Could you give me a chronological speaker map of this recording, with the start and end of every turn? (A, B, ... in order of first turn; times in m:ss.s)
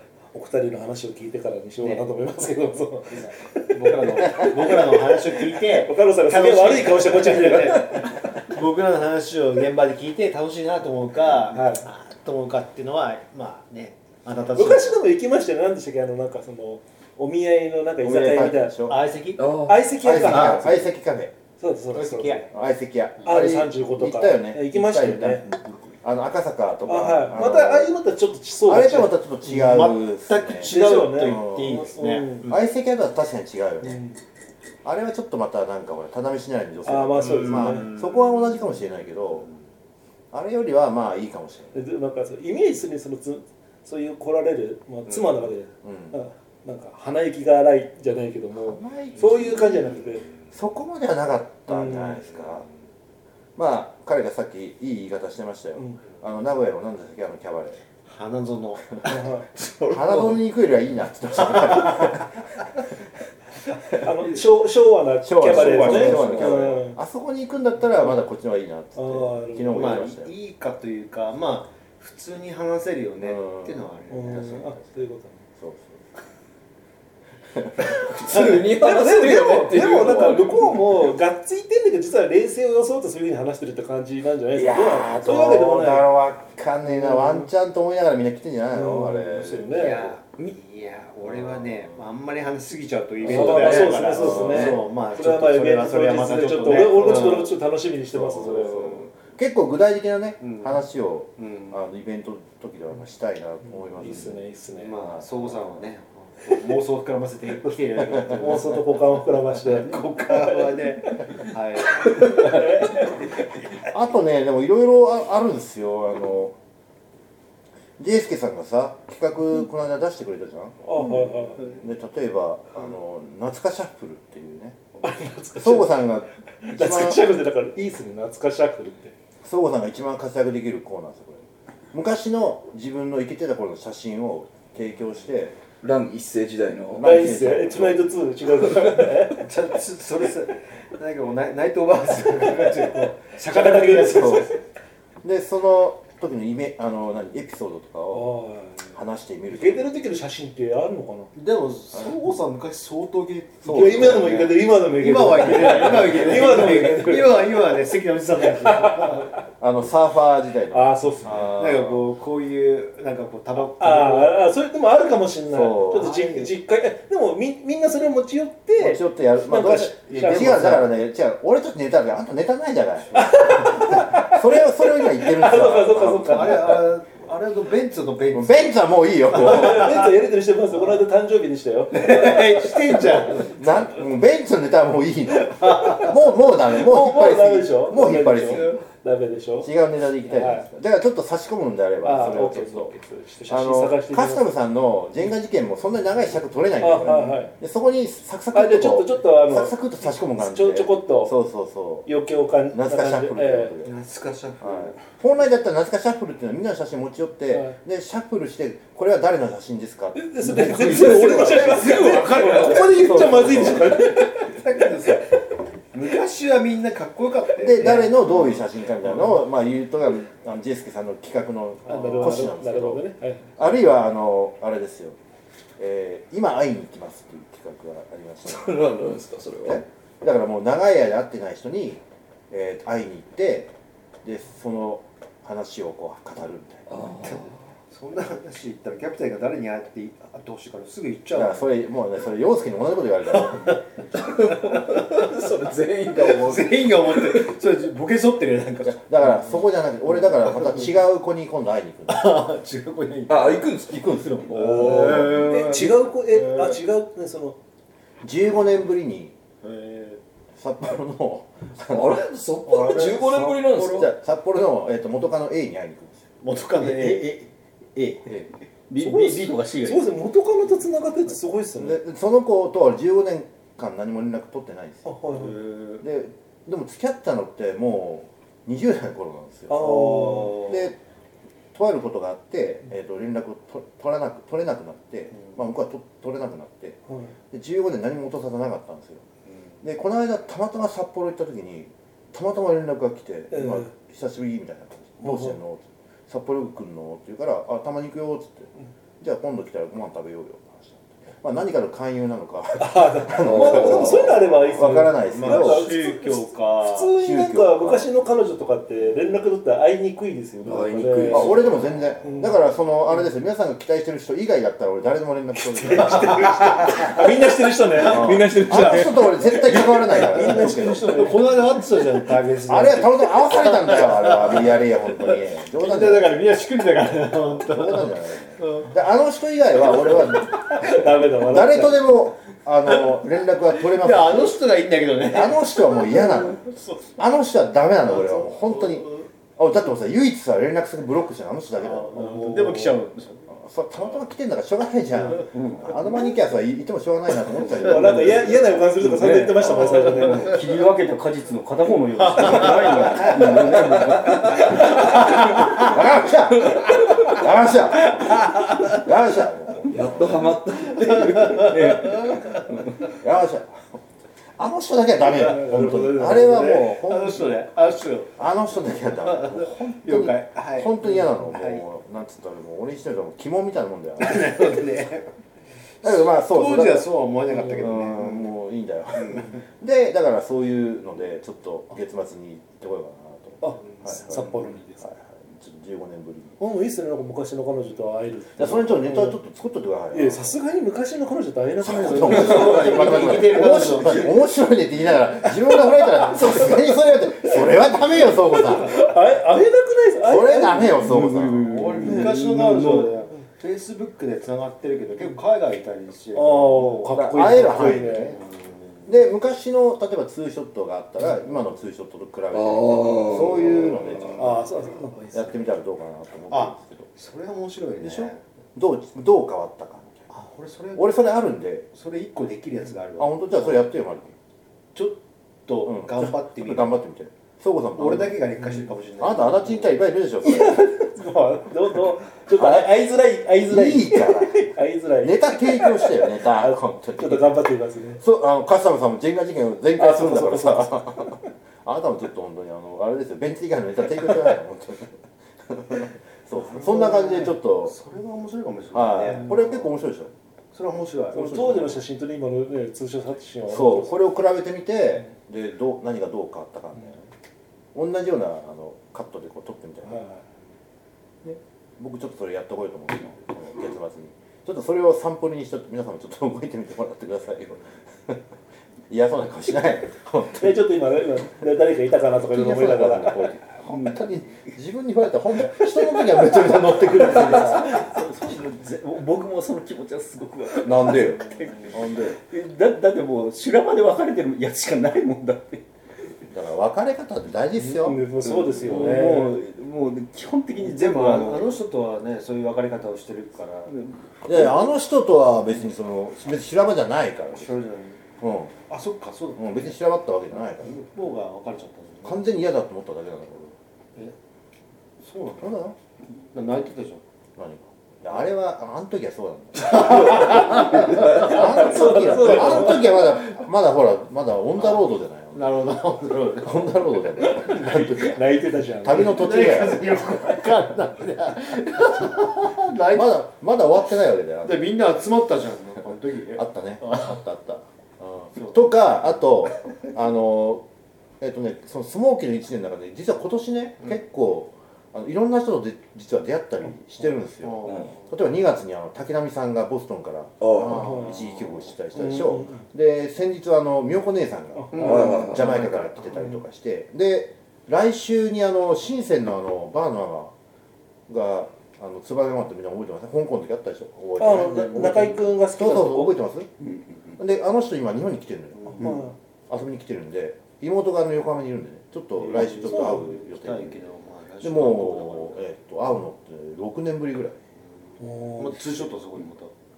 0:00.3-0:08.2 A
0:01.8-0:02.1 B
0:03.2-0:15.0 B
0:11.5-0:11.8 A
0:14.5-0:18.8 A
0:18.0-0:19.0 C
0:18.9-0:19.6 B
0:19.4-0:19.8 D
0:19.6-0:20.8 A
0:20.0-0:21.3 C
0:21.6-0:22.5 A
0:21.9-0:22.5 B
0:22.5-0:25.4 C
0:23.2-0:25.5 A
0:26.0-0:27.9 C
0:26.8-0:29.2 A
0:28.6-0:31.9 C
0:29.4-0:32.5 B
0:30.6-0:32.5 A
0:32.4-0:34.0 C
0:33.8-0:34.2 A
0:34.8-0:39.5 C
0:36.8-0:37.9 A
0:40.3-0:41.9 C
0:41.7-0:50.3 A
0:45.8-0:46.2 C
0:48.5-0:49.9 C
0:50.5-0:52.6 C
0:51.7-0:52.2 A
0:53.6-0:57.8 C
0:58.0-0:59.2 B
0:59.0-0:59.4 A
0:59.9-1:02.4 C
1:03.9-1:07.0 A
1:05.2-1:10.3 C
1:09.0-1:10.0 A
1:09.7-1:14.8 B
1:13.2-1:13.8 C
1:14.1-1:15.4 A
1:15.6-1:16.0 C
1:17.5-1:17.9 C
1:18.0-1:20.9 D
1:18.4-1:26.1 A
1:24.5-1:30.1 C
1:26.8-1:27.5 A
1:28.7-1:30.0 A
1:29.7-1:37.5 B
1:31.2-1:31.7 C
1:33.2-1:39.0 A
1:33.3-1:34.8 C
1:38.1-1:44.4 C
1:40.4-1:40.8 B
1:41.4-1:41.7 B
1:43.9-1:45.0 A
1:44.7-1:48.9 B
1:45.0-1:45.5 C
1:48.4-1:51.2 A
1:49.6-1:53.1 B
1:52.0-1:53.1 A
1:53.9-1:56.6 C
1:58.0-2:00.8 C
2:00.8-2:01.7 A
2:01.6-2:04.8 C
2:05.0-2:06.0 A
2:05.6-2:07.2 C
2:06.6-2:09.1 A
2:09.4-2:15.6 C
2:15.8-2:17.1 D
2:16.9-2:18.2 C
2:17.0-2:19.5 A
2:19.3-2:24.6 B
2:22.8-2:24.5 A
2:24.1-2:24.5 C
2:25.2-2:29.9 C
2:28.1-2:28.9 A
2:29.5-2:31.3 A
2:31.3-2:39.3 B
2:33.6-2:34.4 C
2:33.6-2:37.6 A
2:35.8-2:36.2 C
2:38.4-2:39.3 A
2:39.6-2:42.0 C
2:40.7-2:41.6 A
2:41.4-2:44.4 B
2:43.6-2:50.9 A
2:45.5-2:46.1 C
2:45.9-2:46.5 B
2:48.8-2:56.8 C
2:50.1-2:50.6 B
2:53.1-2:56.8 A
2:56.2-2:58.7 B
2:58.3-3:00.0 C
2:59.4-2:59.8 B
2:59.4-3:03.4 A
3:01.9-3:03.7 B
3:03.5-3:08.7 C
3:05.6-3:06.1 B
3:06.7-3:09.7 A
3:09.6-3:12.9 C
3:10.3-3:10.7 A
3:12.0-3:14.4 A
3:13.5-3:22.1 C
3:16.8-3:17.5 A
3:18.5-3:21.3 A
3:22.0-3:23.8 A
3:22.7-3:23.9 C
3:23.8-3:25.0 B
3:24.6-3:31.2 C
3:30.2-3:34.6 A
3:30.4-3:31.4 E
3:30.7-3:33.6 B
3:32.9-3:33.9 C
3:34.4-3:35.3 B
3:35.9-3:38.6 B
3:37.6-3:43.0 C
3:41.8-3:43.5 A
3:41.9-3:42.2 B
3:43.6-3:45.2 C
3:45.8-3:48.8 C
3:48.4-3:49.8 D
3:49.6-3:53.7 C
3:54.2-3:56.9 C
3:56.9-3:57.5 D
3:57.2-4:01.7 B
4:01.3-4:03.8 C
4:04.1-4:07.5 D
4:04.5-4:05.5 B
4:06.1-4:09.5 B
4:08.8-4:12.4 C
4:10.2-4:10.9 B
4:12.1-4:16.8 B
4:13.3-4:15.5 D
4:14.0-4:14.9 C
4:14.7-4:17.6 A
4:18.2-4:19.3 C
4:19.6-4:20.2 B
4:20.6-4:22.2 C
4:21.9-4:24.1 D
4:22.7-4:24.0 B
4:23.7-4:26.2 C
4:26.4-4:27.4 B
4:26.8-4:28.5 C
4:28.9-4:30.1 E
4:29.7-4:32.0 A
4:31.8-4:35.1 C
4:35.0-4:35.6 A
4:35.3-4:36.0 B
4:36.0-4:41.0 C
4:39.7-4:40.7 A
4:39.9-4:40.7 B
4:41.7-4:47.0 C
4:47.5-4:49.2 C
4:49.8-5:05.9 C
4:53.5-4:53.9 A
4:55.2-4:55.6 A
5:02.8-5:11.7 A
5:03.4-5:04.4 D
5:05.3-5:07.1 B
5:07.2-5:08.1 C
5:10.6-5:11.5 D
5:11.3-5:16.8 C
5:12.2-5:12.6 A
5:15.8-5:21.8 A
5:16.1-5:17.4 B
5:18.0-5:21.3 C
5:18.7-5:19.0 B
5:20.1-5:28.9 B
5:22.7-5:26.4 C
5:27.5-5:34.6 C
5:30.7-5:32.1 A
5:33.9-5:37.0 B
5:35.3-5:36.6 C
5:37.2-5:42.5 C
5:38.0-5:39.3 B
5:41.8-5:43.5 B
5:42.3-5:43.0 A
5:43.5-5:48.6 C
5:45.2-5:45.9 B
5:45.5-5:45.8 E
5:47.7-5:50.6 A
5:49.0-5:55.2 E
5:49.6-5:50.0 C
5:52.2-5:55.9 B
5:55.6-6:00.5 C
5:59.9-6:02.4 D
6:01.0-6:02.6 B
6:01.5-6:02.2 E
6:03.2-6:03.8 C
6:04.6-6:07.5 C
6:05.2-6:06.8 A
6:06.4-6:08.3 B
6:08.4-6:14.8 C
6:09.2-6:11.8 B
6:14.2-6:15.3 B
6:16.0-6:17.1 C
6:16.0-6:18.5 B
6:17.7-6:26.6 C
6:23.6-6:25.1 A
6:26.6-6:29.4 A
6:28.6-6:30.5 C
6:30.1-6:33.5 A
6:31.8-6:39.0 C
6:32.2-6:34.4 B
6:32.5-6:33.7 E
6:38.5-6:41.1 A
6:40.2-6:41.8 C
6:40.9-6:43.1 E
6:41.6-6:47.1 B
6:42.1-6:42.4 A
6:46.3-6:48.3 A
6:47.1-6:48.4 C
6:47.7-6:49.1 B
6:49.0-6:54.6 C
6:52.5-6:54.1 D
6:54.4-6:54.9 B
6:54.4-6:55.6 A
6:55.3-6:57.1 C
6:56.5-6:58.4 B
6:58.0-7:00.2 C
7:00.3-7:01.2 B
7:01.0-7:01.9 C
7:01.9-7:03.8 B
7:03.2-7:04.3 C
7:04.9-7:07.0 B
7:05.8-7:08.4 C
7:08.0-7:09.9 B
7:09.2-7:10.9 C
7:10.4-7:18.2 A
7:12.5-7:12.9 C
7:13.6-7:17.6 C
7:18.2-7:28.0 C
7:20.0-7:21.4 A
7:26.5-7:29.9 B
7:28.9-7:30.3 C
7:30.7-7:31.7 B
7:31.3-7:34.2 A
7:31.3-7:32.0 C
7:33.7-7:37.2 C
7:37.9-7:40.2 C
7:41.4-7:48.4 C
7:49.1-7:50.8 C
7:50.5-7:53.5 A
7:52.5-7:58.1 C
7:57.1-8:05.8 E
8:00.8-8:02.4 C
8:06.5-8:08.3 C
8:07.8-8:09.5 A
8:08.4-8:09.5 B
8:08.8-8:11.7 E
8:10.8-8:13.9 B
8:13.9-8:14.6 E
8:14.4-8:17.7 C
8:17.6-8:18.2 B
8:18.4-8:18.8 C
8:18.9-8:20.0 B
8:19.6-8:21.0 C
8:20.8-8:22.5 B
8:22.2-8:23.7 C
8:25.2-8:25.7 B
8:25.6-8:25.9 C
8:26.5-8:27.2 B
8:27.6-8:36.0 C
8:29.8-8:32.6 B
8:31.1-8:33.2 A
8:35.5-8:37.0 B
8:36.6-8:40.3 C
8:37.5-8:39.4 A
8:39.1-8:43.3 B
8:43.1-8:44.9 C
8:44.6-8:47.2 B
8:46.6-8:50.8 C
8:51.4-9:10.5 C
8:57.6-8:58.2 B
9:00.6-9:01.0 D
9:01.0-9:01.4 A
9:02.2-9:02.8 A
9:04.8-9:05.1 A
9:04.9-9:06.2 B
9:04.9-9:05.7 D
9:11.3-9:16.7 C
9:14.4-9:16.4 A
9:17.4-9:24.0 C
9:18.8-9:19.2 B
9:19.0-9:19.3 A
9:22.4-9:25.6 B
9:24.6-9:27.6 C
9:28.2-9:29.7 B
9:28.2-9:29.0 A